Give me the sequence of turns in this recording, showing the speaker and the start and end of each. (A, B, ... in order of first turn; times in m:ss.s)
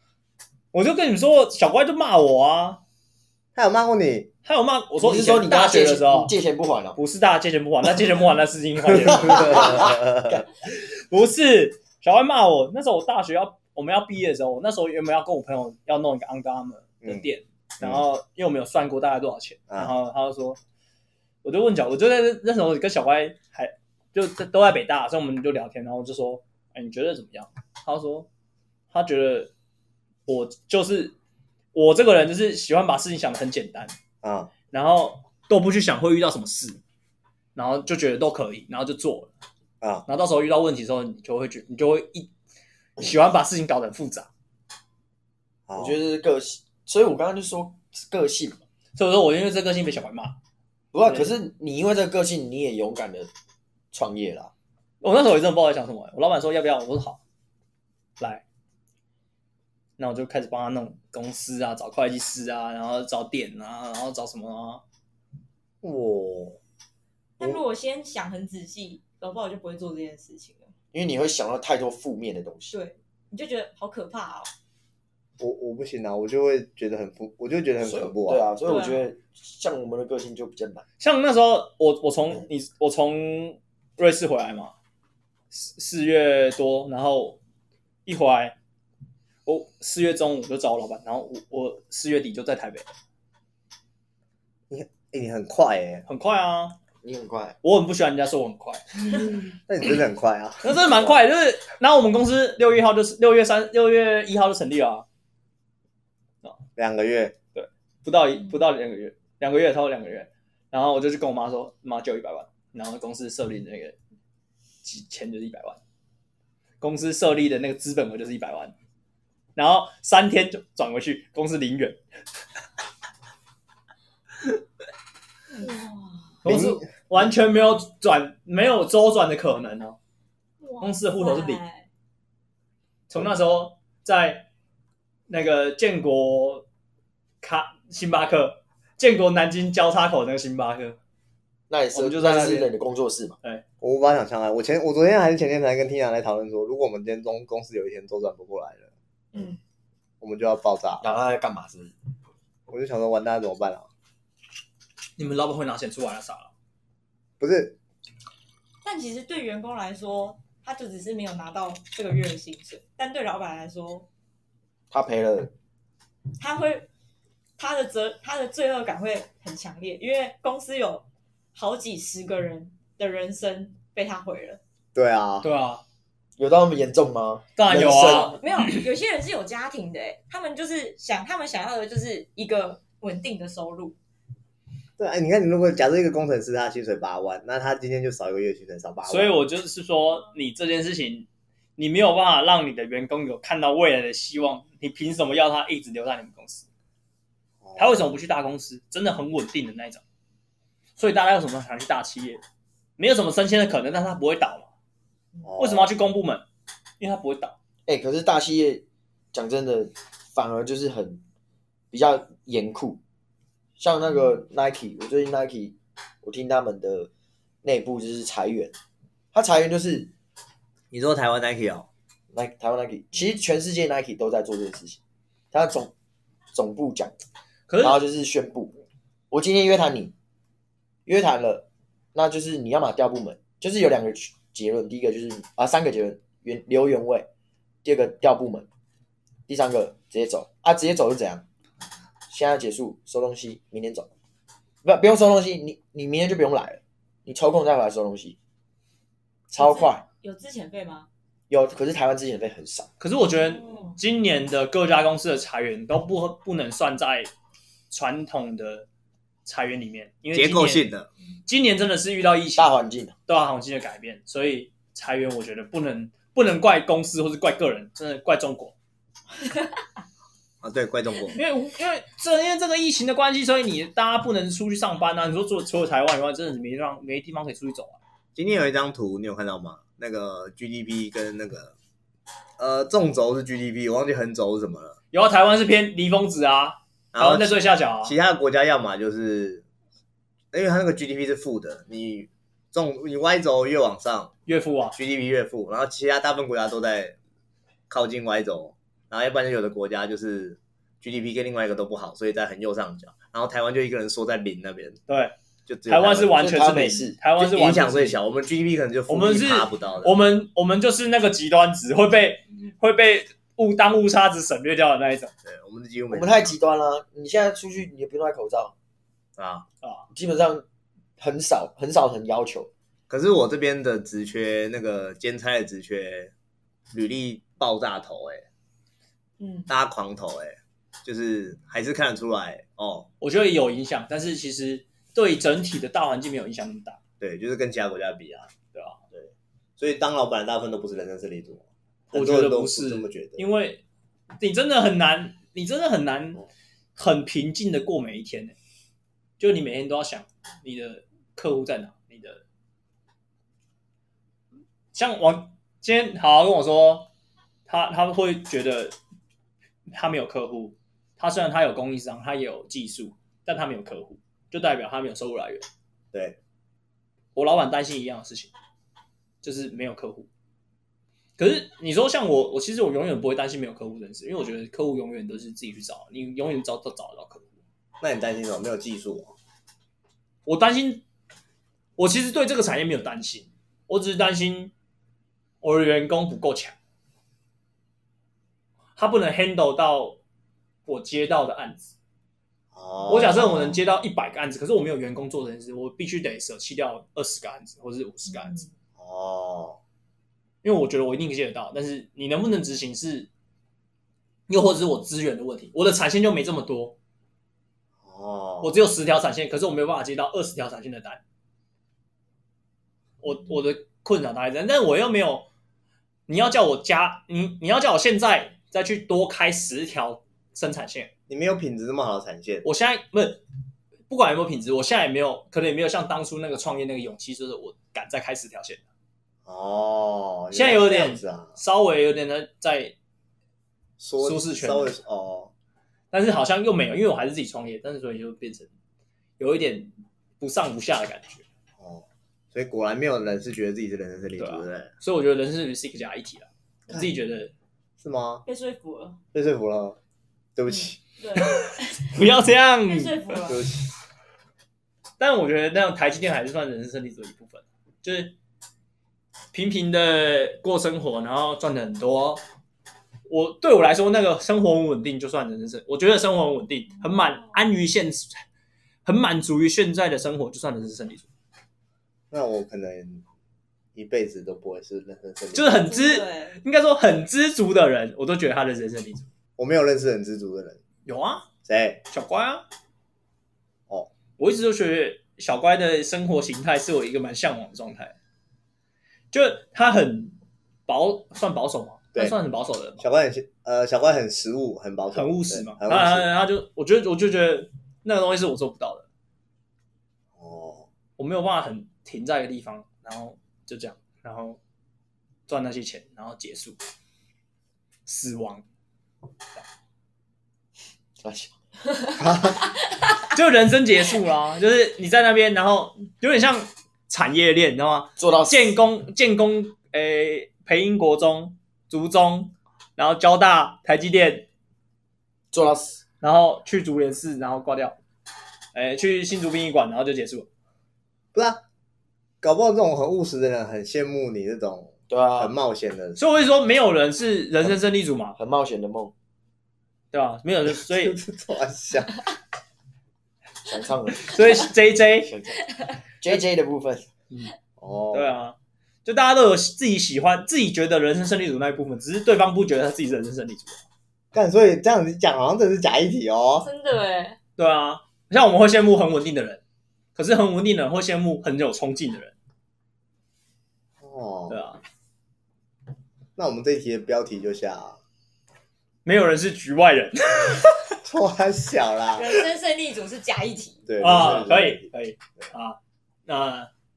0:00.7-0:02.8 A
0:03.6-0:04.3 B
0:04.4-0:06.3 A
0:05.0-0:07.0 C
0:07.0-0:09.9 A
0:08.9-0:10.5 C
0:09.0-0:10.3 B
0:10.7-0:20.6 A
0:21.4-0:28.3 A
0:28.9-0:29.5 A
0:30.3-0:31.2 A
0:31.7-0:33.9 A
0:34.2-0:34.5 B
0:34.7-0:36.8 A
0:37.6-0:39.3 A
0:39.8-0:40.1 B
0:40.1-0:42.3 A
0:43.0-0:44.3 A
0:45.7-0:46.0 B
0:45.8-0:48.6 C
0:49.0-0:50.4 A
0:50.9-0:53.3 C
0:51.0-0:51.3 A
0:53.9-0:54.5 C
0:55.0-0:57.2 A
1:00.0-1:04.8 A
1:05.8-1:06.6 B
1:07.4-1:10.7 D
1:10.9-1:12.7 C
1:12.7-1:14.5 D
1:15.4-1:18.5 B
1:17.8-1:20.8 C
1:18.7-1:19.0 D
1:21.0-1:24.7 A
1:25.5-1:27.4 A
1:28.1-1:28.6 A
1:29.5-1:32.8 A
1:34.7-1:36.0 B
1:36.1-1:36.8 A
1:37.0-1:37.6 C
1:37.6-1:39.4 A
1:39.7-1:41.2 B
1:40.6-1:45.0 A
1:46.8-1:47.4 B
1:47.5-1:54.0 A
1:54.8-1:55.8 A
1:56.8-1:58.7 A
1:59.6-2:02.0 A
2:05.5-2:06.3 D
2:06.4-2:10.0 A
2:06.5-2:06.8 B
2:10.6-2:11.9 D
2:10.8-2:11.6 A
2:13.1-2:14.5 A
2:15.3-2:16.6 A
2:17.4-2:21.0 A
2:21.7-2:23.4 C
2:21.9-2:22.7 A
2:23.8-2:28.9 B
2:30.2-2:31.1 B
2:31.0-2:31.9 C
2:32.7-2:33.9 B
2:35.2-2:36.5 A
2:37.4-2:37.8 B
2:38.8-2:44.1 D
2:44.9-2:45.5 C
2:46.4-2:46.9 D
2:47.6-2:54.6 D
2:55.0-2:55.5 B
2:55.4-2:55.8 A
2:56.4-2:57.5 C
2:57.6-2:58.8 A
2:57.7-2:58.4 B
2:57.9-3:04.0 D
3:05.0-3:09.4 B
3:09.1-3:16.7 A
3:17.6-3:18.1 B
3:17.8-3:20.0 A
3:21.0-3:22.4 A
3:23.0-3:24.7 A
3:25.4-3:26.0 B
3:25.6-3:26.4 A
3:27.0-3:27.6 A
3:27.9-3:31.2 C
3:31.9-3:33.0 C
3:33.8-3:37.1 C
3:37.6-3:38.7 C
3:39.3-3:40.1 C
3:40.9-3:41.9 B
3:42.3-3:45.0 C
3:45.5-3:45.9 C
3:46.5-3:47.1 C
3:47.7-3:48.0 A
3:47.8-3:48.8 C
3:49.3-3:50.1 C
3:51.1-3:57.3 C
3:57.8-3:58.7 C
3:59.5-4:01.5 C
4:02.3-4:04.1 C
4:04.8-4:08.4 C
4:09.5-4:10.0 C
4:09.6-4:11.1 D
4:11.5-4:12.9 C
4:13.0-4:17.3 A
4:13.4-4:14.0 D
4:17.9-4:18.9 A
4:19.5-4:20.9 A
4:20.3-4:21.1 B
4:21.5-4:22.8 A
4:22.6-4:23.2 C
4:23.3-4:28.7 A
4:30.6-4:31.4 B
4:31.4-4:38.0 A
4:38.4-4:41.7 B
4:42.6-4:45.0 B
4:45.1-4:48.2 A
4:47.1-4:49.6 B
4:50.5-4:54.3 B
4:54.5-4:55.0 A
4:55.0-4:57.2 B
4:57.9-5:05.0 B
5:05.1-5:05.4 A
5:05.7-5:06.4 B
5:05.9-5:08.2 A
5:06.3-5:07.2 C
5:07.4-5:10.2 B
5:09.1-5:15.3 A
5:15.4-5:16.6 B
5:16.1-5:18.7 C
5:19.4-5:19.6 B
5:20.1-5:20.6 C
5:21.2-5:22.7 C
5:23.1-5:26.3 B
5:26.9-5:28.5 B
5:29.4-5:29.7 D
5:29.7-5:33.1 B
5:33.2-5:37.0 A
5:37.2-5:38.5 B
5:38.7-5:39.0 A
5:39.1-5:43.4 B
5:42.1-5:43.8 A
5:44.4-5:46.4 A
5:47.0-5:48.6 A
5:49.4-5:52.4 A
5:54.9-5:57.1 A
5:57.7-5:59.0 A
5:59.9-6:05.6 A
6:06.1-6:06.4 B
6:07.4-6:08.5 A
6:09.4-6:10.3 A
6:11.4-6:17.5 A
6:18.0-6:19.3 B
6:20.5-6:21.0 A
6:22.0-6:24.7 A
6:25.6-6:26.8 A
6:29.0-6:30.2 A
6:30.9-6:31.9 A
6:32.7-6:33.7 B
6:33.1-6:38.6 A
6:39.0-6:39.8 B
6:40.6-6:43.3 A
6:44.5-6:47.0 A
6:48.0-6:48.8 B
6:48.6-6:51.2 A
6:53.2-6:55.5 A
6:56.3-7:01.1 A
7:01.3-7:02.6 B
7:02.6-7:03.4 A
7:04.1-7:08.8 A
7:09.4-7:11.6 B
7:10.5-7:12.9 A
7:14.0-7:15.5 B
7:14.2-7:15.0 A
7:16.1-7:18.7 A
7:19.4-7:21.4 A
7:21.8-7:24.9 B
7:24.4-7:27.5 A
7:28.0-7:28.4 B
7:28.5-7:29.2 D
7:29.3-7:30.0 B
7:30.6-7:31.0 B
7:31.2-7:32.1 D
7:31.4-7:33.4 A
7:32.9-7:33.6 D
7:33.5-7:33.9 B
7:35.2-7:38.4 A
7:39.5-7:42.4 A
7:43.3-7:48.4 A
7:49.0-7:51.3 A
7:52.3-7:53.2 B
7:54.0-7:55.9 B
7:55.5-7:59.3 A
7:55.9-7:56.6 D
7:59.6-8:00.8 B
8:01.1-8:01.5 A
8:01.6-8:02.0 B
8:02.1-8:02.6 A
8:04.4-8:08.2 A
8:09.3-8:10.4 A
8:10.9-8:13.0 A
8:13.0-8:16.3 B
8:15.1-8:19.1 A
8:20.4-8:20.9 B
8:21.2-8:24.6 A
8:25.5-8:26.8 A
8:28.1-8:28.6 A
8:31.2-8:31.6 C
8:32.2-8:32.6 B
8:33.3-8:44.5 A
8:38.2-8:38.8 C
8:45.5-8:46.0 C
8:46.2-8:48.0 A
8:48.7-8:50.5 A
8:51.3-8:51.6 B
8:52.4-8:56.2 B
8:55.1-8:55.5 C
8:56.2-8:58.4 A
8:58.4-8:59.1 C
9:00.1-9:01.2 A
9:00.7-9:02.2 B
9:03.6-9:04.4 C
9:04.2-9:05.4 A
9:05.2-9:07.1 C
9:07.8-9:08.4 B
9:08.1-9:13.8 A
9:14.3-9:16.7 B
9:16.6-9:17.4 D
9:17.6-9:19.6 A
9:20.2-9:22.3 A
9:24.0-9:24.6 B
9:24.5-9:24.8 A
9:26.4-9:28.0 B
9:29.0-9:31.0 A
9:31.0-9:32.3 B
9:32.1-9:33.8 D
9:33.9-9:34.9 B
9:34.0-9:36.7 A